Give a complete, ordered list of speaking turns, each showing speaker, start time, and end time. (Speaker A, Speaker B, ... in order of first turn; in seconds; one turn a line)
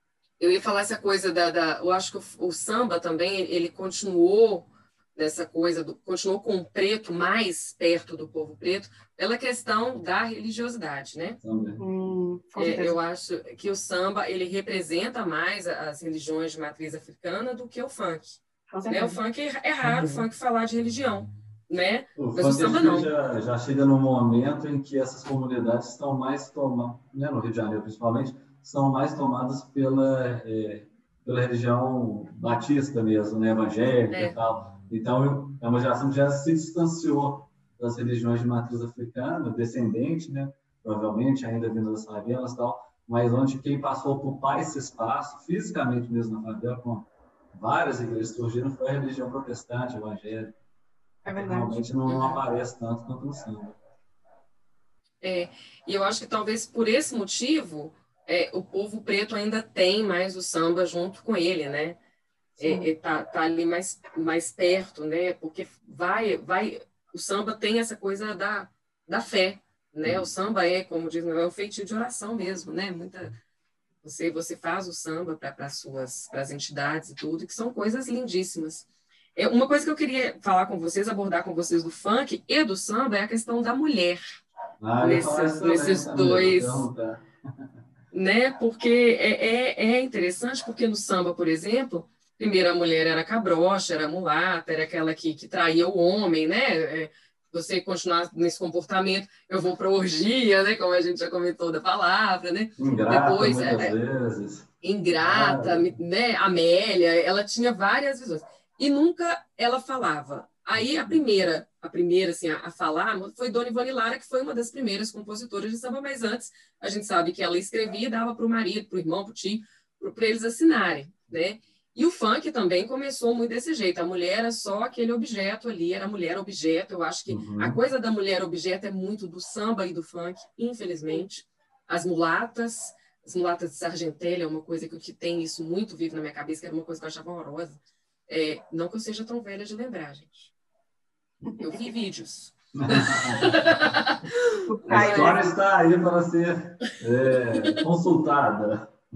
Speaker A: 0.4-11.4
Speaker B: 11.4-11.8
Speaker C: 11.8-13.0
Speaker A: 12.6-23.1
Speaker C: 18.7-19.2
Speaker B: 22.1-50.5
Speaker A: 34.1-34.4
Speaker C: 51.2-51.9
Speaker B: 51.3-53.8
Speaker A: 52.0-52.4
Speaker A: 55.2-62.0
Speaker A: 62.6-73.3
Speaker B: 70.0-70.3
Speaker A: 74.0-84.3
Speaker B: 84.8-87.2
Speaker A: 85.0-86.9
Speaker A: 88.1-103.9
Speaker B: 102.8-106.0
Speaker A: 104.8-140.5
Speaker B: 110.8-111.2
Speaker B: 127.3-127.8
Speaker A: 141.6-145.4
Speaker B: 142.8-143.9
Speaker C: 144.6-145.5
Speaker B: 144.9-148.9